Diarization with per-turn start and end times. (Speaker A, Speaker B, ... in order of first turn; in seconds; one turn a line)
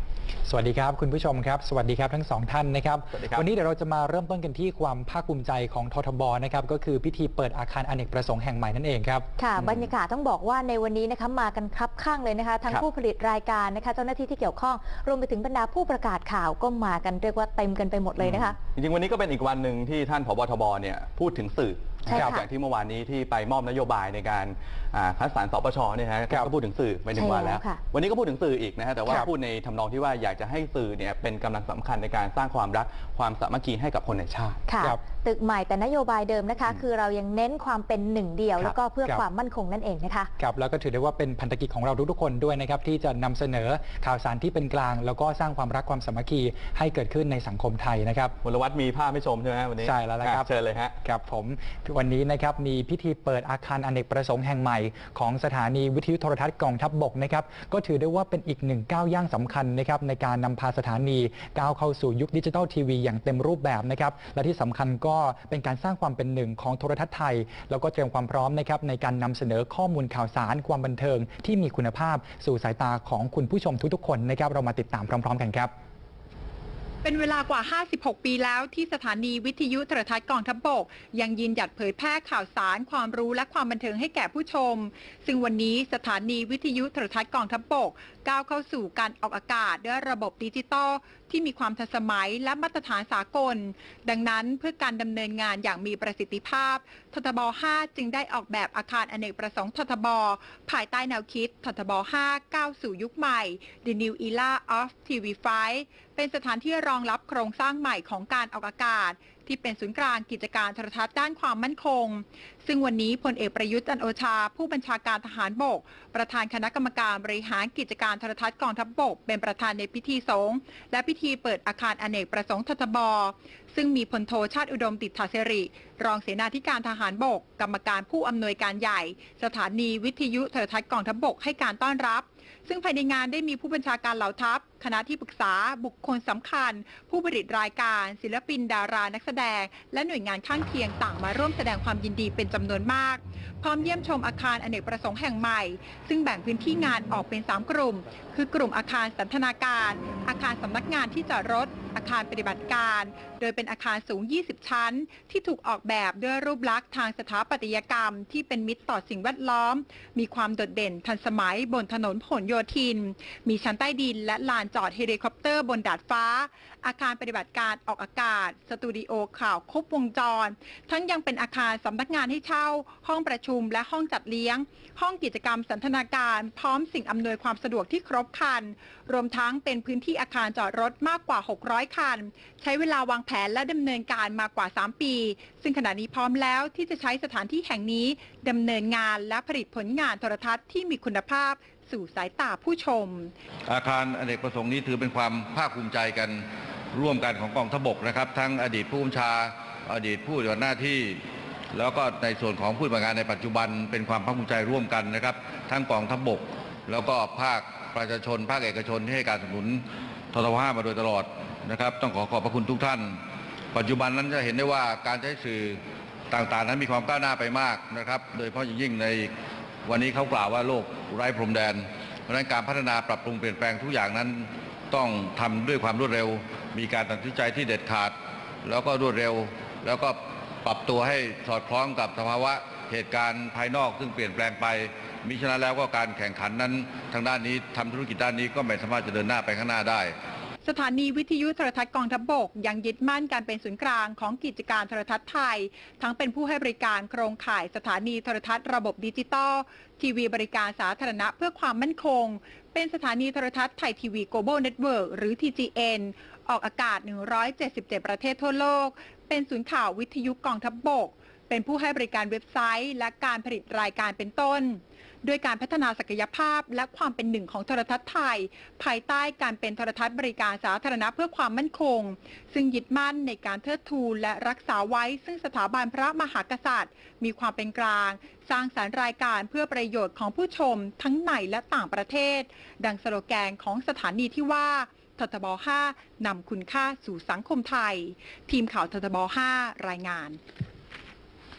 Speaker A: 0.5-9.3
Speaker B: 3.2-3.5
Speaker C: 9.4-18.6
Speaker B: 9.6-9.9
Speaker B: 18.2-34.6
Speaker C: 22.1-22.5
Speaker A: 22.1-22.4
Speaker C: 27.1-27.8
Speaker C: 34.7-40.3
Speaker A: 38.6-39.2
Speaker A: 40.4-48.4
Speaker B: 48.4-51.0
Speaker A: 49.8-50.5
Speaker A: 51.0-75.7
Speaker D: 77.0-193.3
Speaker E: 193.7-201.2
Speaker E: 201.7-213.2
Speaker E: 213.7-215.8
Speaker E: 216.3-219.3
Speaker E: 219.9-240.2
Speaker D: 240.6-290.4